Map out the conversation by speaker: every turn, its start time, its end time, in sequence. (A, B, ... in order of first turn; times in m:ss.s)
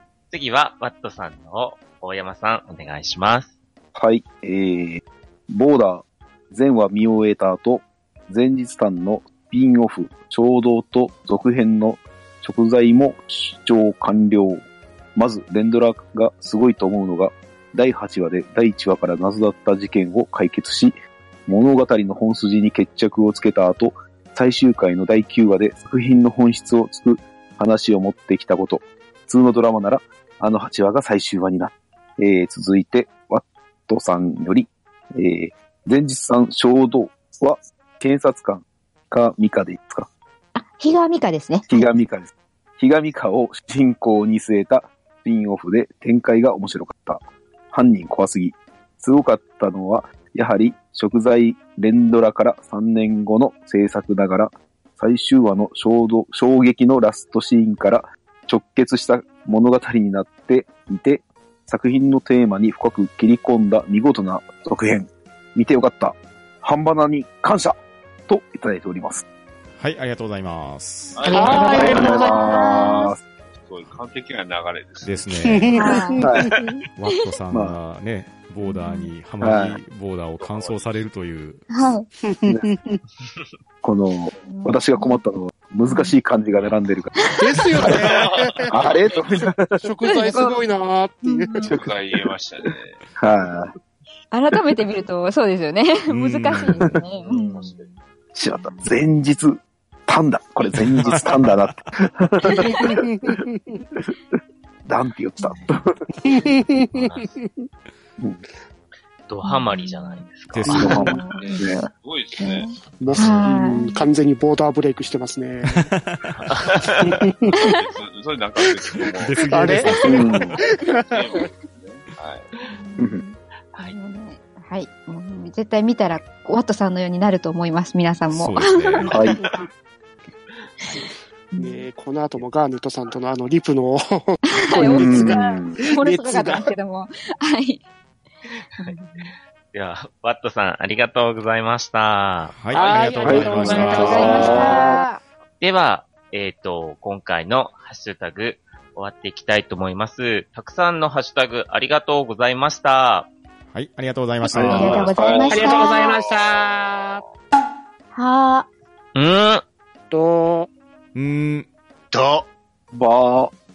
0:00.3-0:03.5 A
0:04.0-0:14.6 B
0:15.2-0:21.0 B
0:21.5-0:40.1 B
0:40.6-0:41.7 C
0:41.7-1:09.2 B
1:09.8-1:11.4 D
1:11.1-1:12.7 E
1:11.3-1:12.6 F
1:11.3-1:13.1 C
1:11.6-1:13.2 B
1:13.5-1:15.7 E
1:15.0-1:15.8 D
1:15.4-1:16.7 F
1:15.8-1:16.2 C
1:16.2-1:16.5 B
1:17.0-1:21.7 D
1:17.5-1:17.8 B
1:18.6-1:19.1 C
1:19.4-1:19.8 B
1:20.4-1:21.1 E
1:21.7-1:22.1 C
1:22.2-1:23.0 F
1:23.8-1:27.2 B
1:24.5-1:25.2 C
1:25.9-1:26.1 C
1:27.2-1:28.0 C
1:27.4-1:28.8 F
1:27.9-1:28.5 E
1:28.7-1:29.8 B
1:29.8-1:31.7 F
1:30.1-1:30.6 C
1:31.2-1:31.7 C
1:31.6-1:33.0 E
1:31.6-1:31.9 B
1:33.2-1:33.7 B
1:34.3-1:38.0 C
1:36.1-1:36.9 D
1:37.1-1:37.9 E
1:38.4-1:43.4 B
1:38.5-1:38.9 C
1:40.9-1:41.8 D
1:42.5-1:43.0 C
1:42.9-1:43.8 F
1:44.9-1:46.0 B
1:46.2-1:47.7 F
1:46.9-1:47.3 A
1:49.3-1:51.0 A
1:49.4-1:50.2 C
1:50.5-1:51.2 D
1:50.7-1:51.0 F
1:50.7-1:51.8 B
1:50.9-1:54.0 C
1:51.2-1:53.4 E
1:53.0-1:55.9 F
1:53.2-1:53.4 A
1:55.7-1:56.8 D
1:56.3-1:57.1 A
1:57.0-1:57.6 F
1:57.5-2:02.5 E
1:59.2-2:00.6 D
1:59.4-2:01.4 F
2:00.0-2:00.6 B
2:02.7-2:09.2 C
2:03.0-2:03.2 B
2:08.3-2:09.2 D
2:09.1-2:09.4 B
2:11.6-2:11.8 C
2:11.6-2:16.7 F
2:14.5-2:17.8 C
2:14.8-2:15.8 B
2:18.8-2:19.3 C
2:19.7-2:23.0 A
2:22.5-2:24.6 D
2:22.7-2:25.0 F
2:23.2-2:25.0 B
2:23.7-2:25.2 C
2:25.6-2:33.3 A
2:33.7-2:35.1 D
2:34.5-2:35.8 B
2:34.6-2:36.2 C
2:35.5-2:37.2 F
2:35.5-2:37.2 E
2:38.2-2:38.7 C
2:39.2-2:39.6 A
2:40.1-2:40.7 F
2:41.2-2:41.7 D
2:42.9-2:43.5 B